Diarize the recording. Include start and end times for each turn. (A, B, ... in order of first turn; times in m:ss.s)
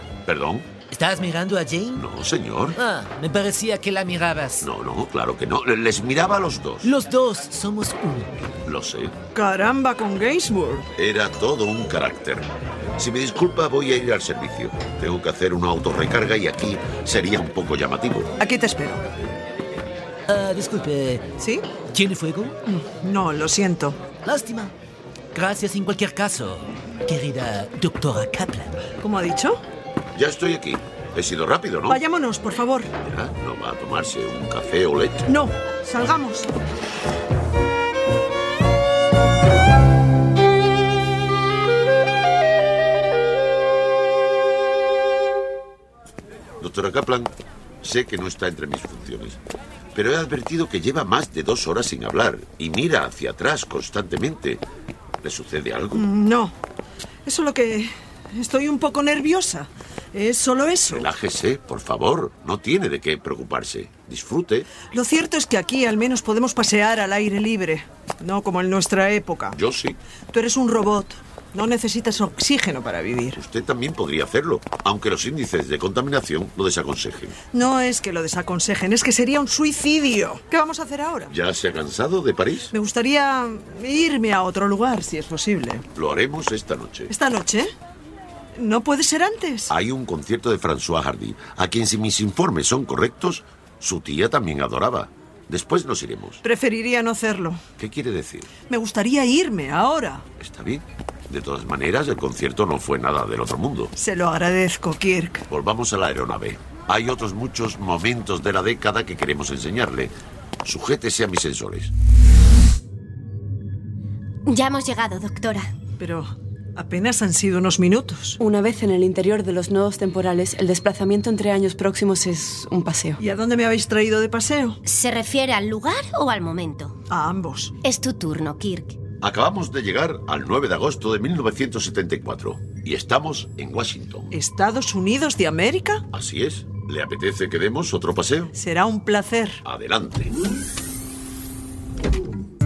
0:00.3-0:00.8 A
0:00.9-0:02.0 B
0:01.9-0:02.8 A
0:02.8-0:04.7 B
0:04.6-0:07.0 A
0:06.8-0:08.3 B
0:08.6-0:09.2 A
0:09.3-0:10.9 C
0:11.0-0:18.3 A
0:18.4-0:19.0 C
0:20.3-0:21.3 B
0:21.4-0:21.8 C
0:21.9-0:22.6 B
0:22.7-0:24.0 C
0:24.2-0:24.7 B
0:25.3-0:28.8 B
0:29.0-0:29.6 C
0:30.2-0:32.0 A
0:31.9-0:32.9 C
0:33.0-0:35.2 A
0:35.3-0:36.5 C
0:46.6-0:49.4 A
0:49.9-0:54.6 A
0:55.2-0:56.1 A
0:55.9-0:56.6 C
0:57.3-1:01.1 C
1:00.9-1:04.7 A
1:04.8-1:09.6 C
1:09.6-1:10.0 A
1:10.3-1:13.4 C
1:13.4-1:17.4 A
1:17.5-1:21.3 C
1:21.3-1:22.7 A
1:22.7-1:25.8 C
1:26.0-1:27.1 A
1:27.1-1:27.7 C
1:28.6-1:29.7 C
1:29.7-1:36.4 A
1:36.4-1:37.6 C
1:37.8-1:38.5 A
1:38.7-1:40.2 C
1:40.4-1:43.9 A
1:44.0-1:45.5 C
1:45.5-1:50.1 A
1:50.6-1:51.9 A
1:54.5-1:55.7 D
1:56.0-1:58.4 C
1:58.4-2:03.2 E
2:03.2-2:04.8 C
2:04.9-2:06.9 D
2:07.1-2:07.7 C
2:07.8-2:09.0 D
2:09.2-2:14.3 A
2:14.3-2:16.0 C
2:16.1-2:18.5 A
2:18.6-2:19.6 C
2:19.6-2:20.4 A